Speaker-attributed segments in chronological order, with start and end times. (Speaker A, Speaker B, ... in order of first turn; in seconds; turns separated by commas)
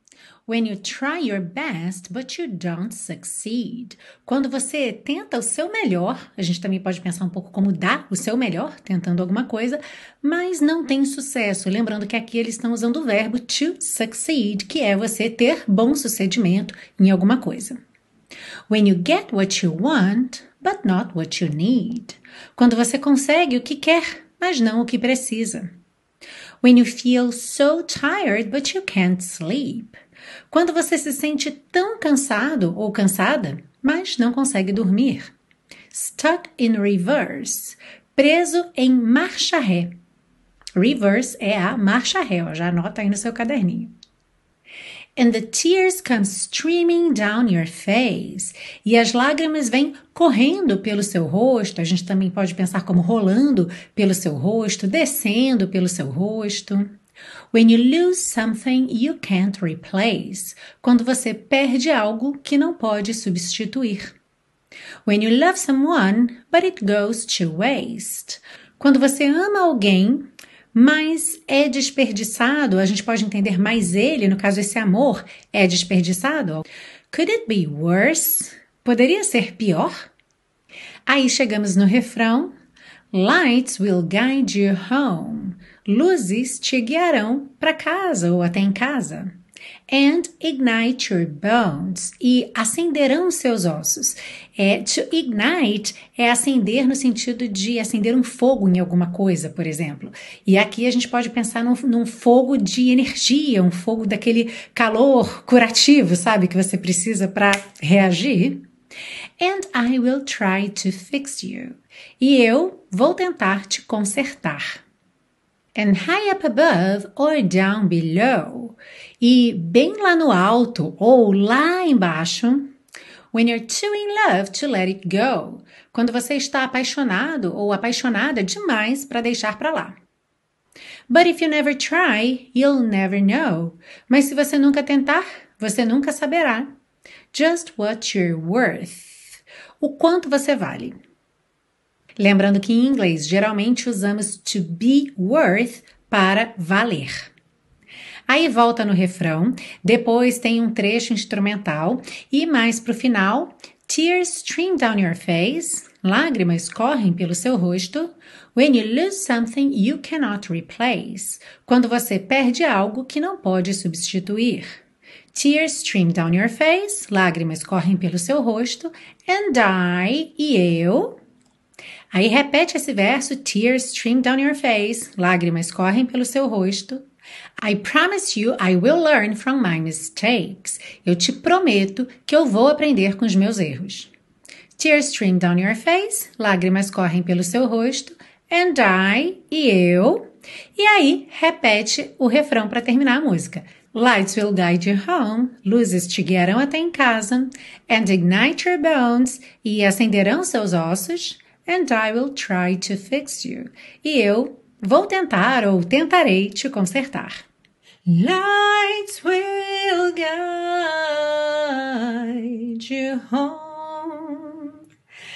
Speaker A: 0.5-17.8, Speaker A: 18.7-25.7, Speaker A: 26.6-29.9, Speaker A: 30.5-35.3, Speaker A: 35.9-39.9, Speaker A: 40.8-43.9, Speaker A: 45.1-56.9, Speaker A: 57.5-64.2, Speaker A: 65.0-80.1, Speaker A: 81.1-82.5, Speaker A: 83.1-89.3, Speaker A: 89.9-108.6, Speaker A: 109.4-114.8, Speaker A: 115.8-122.7, Speaker A: 123.3-129.9, Speaker A: 131.1-136.7, Speaker A: 137.3-141.0, Speaker A: 142.2-147.3, Speaker A: 148.3-164.7, Speaker A: 165.3-171.2, Speaker A: 172.1-177.0, Speaker A: 177.6-184.1, Speaker A: 184.8-190.2, Speaker A: 190.8-207.5, Speaker A: 208.1-214.8